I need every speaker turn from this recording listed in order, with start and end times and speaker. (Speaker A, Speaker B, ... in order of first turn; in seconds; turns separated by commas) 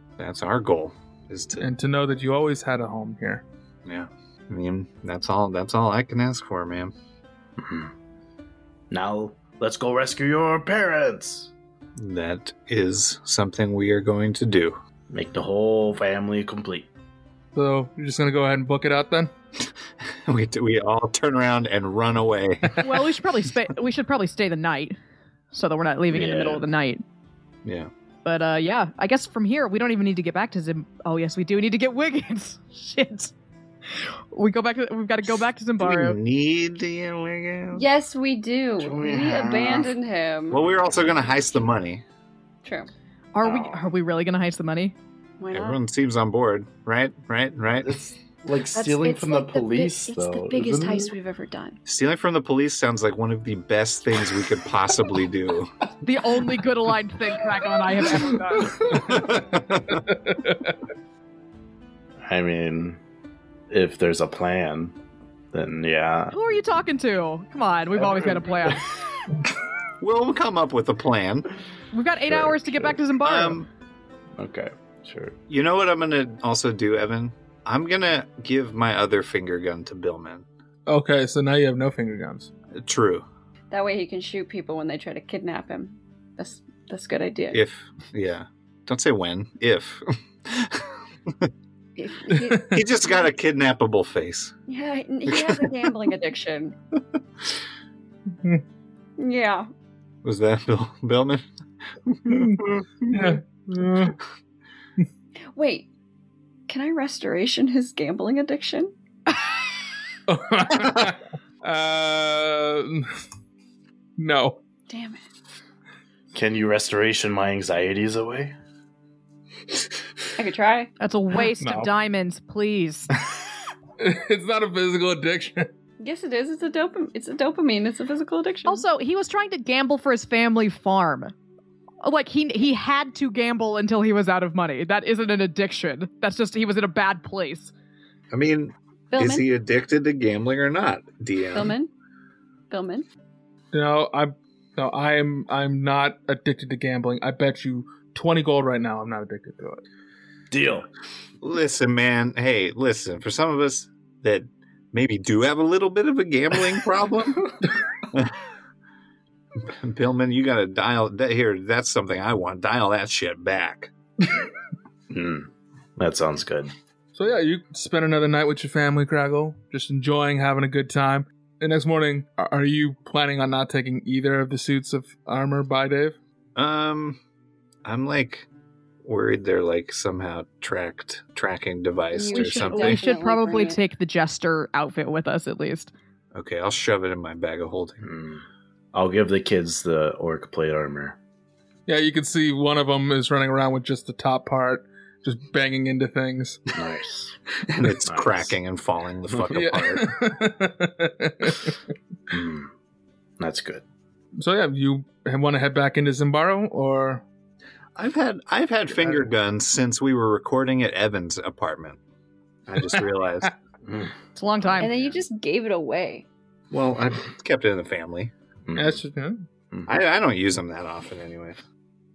Speaker A: 0.2-1.7, Speaker B: 1.6-3.4, Speaker A: 3.8-6.9, Speaker C: 7.6-7.9, Speaker C: 8.9-11.5, Speaker A: 11.9-14.8, Speaker C: 15.1-16.9, Speaker B: 17.5-19.3, Speaker A: 20.2-23.0, Speaker D: 22.8-25.0, Speaker D: 25.5-27.0, Speaker C: 26.1-26.6, Speaker A: 27.6-27.9, Speaker D: 28.2-33.3, Speaker D: 33.9-36.2, Speaker A: 35.8-37.9, Speaker E: 37.7-40.8, Speaker C: 38.8-39.9, Speaker A: 40.5-42.0, Speaker E: 42.6-42.9, Speaker D: 43.3-44.9, Speaker E: 45.4-45.8, Speaker A: 45.5-48.0, Speaker C: 47.8-51.1, Speaker E: 48.7-51.8, Speaker A: 51.9-55.7, Speaker D: 56.0-58.8, Speaker C: 58.5-59.1, Speaker A: 58.9-60.0, Speaker B: 59.1-60.7, Speaker C: 62.2-63.0, Speaker C: 63.7-65.0, Speaker C: 65.5-66.3, Speaker D: 66.3-68.8, Speaker C: 67.9-68.8, Speaker A: 70.0-71.5, Speaker D: 71.9-73.6, Speaker C: 72.2-73.0, Speaker A: 73.2-73.7, Speaker C: 74.4-75.3, Speaker A: 75.5-80.5, Speaker B: 80.9-82.5, Speaker A: 82.7-83.2, Speaker E: 83.7-87.6, Speaker A: 87.5-91.5, Speaker E: 92.0-92.8, Speaker A: 92.7-94.5, Speaker E: 94.7-96.7, Speaker A: 95.3-95.9, Speaker E: 99.2-99.7, Speaker A: 100.2-101.5, Speaker A: 102.0-103.4, Speaker B: 102.3-104.2, Speaker E: 105.5-105.9, Speaker E: 106.7-108.9, Speaker B: 110.3-113.1, Speaker B: 114.2-114.6, Speaker E: 114.9-115.2, Speaker C: 116.3-118.5, Speaker E: 120.4-120.9, Speaker D: 121.0-123.1, Speaker B: 121.6-121.9, Speaker B: 124.0-125.7, Speaker E: 126.0-128.8, Speaker D: 128.7-131.3, Speaker D: 132.0-137.7, Speaker A: 138.3-141.7, Speaker E: 139.1-139.4, Speaker E: 141.5-141.9, Speaker E: 142.7-143.1, Speaker B: 143.7-149.8, Speaker C: 150.5-150.9, Speaker A: 151.4-157.5, Speaker A: 159.7-163.9, Speaker C: 165.1-166.7, Speaker B: 167.1-176.2, Speaker A: 176.6-177.2, Speaker A: 177.8-178.5, Speaker A: 179.0-183.0, Speaker E: 182.1-183.8, Speaker D: 182.3-185.9, Speaker A: 186.3-188.1, Speaker C: 188.0-191.2, Speaker B: 191.9-196.6, Speaker C: 196.7-197.3, Speaker A: 197.6-200.1, Speaker C: 198.1-198.5, Speaker B: 199.5-201.8, Speaker C: 202.3-202.7, Speaker C: 203.4-203.8, Speaker B: 204.3-207.2, Speaker A: 207.9-212.0, Speaker A: 212.7-213.5, Speaker C: 213.8-214.1, Speaker D: 214.3-214.9, Speaker C: 214.7-215.0, Speaker E: 214.8-216.2, Speaker A: 216.7-218.3, Speaker C: 218.7-219.0, Speaker B: 218.7-219.4, Speaker A: 219.9-221.6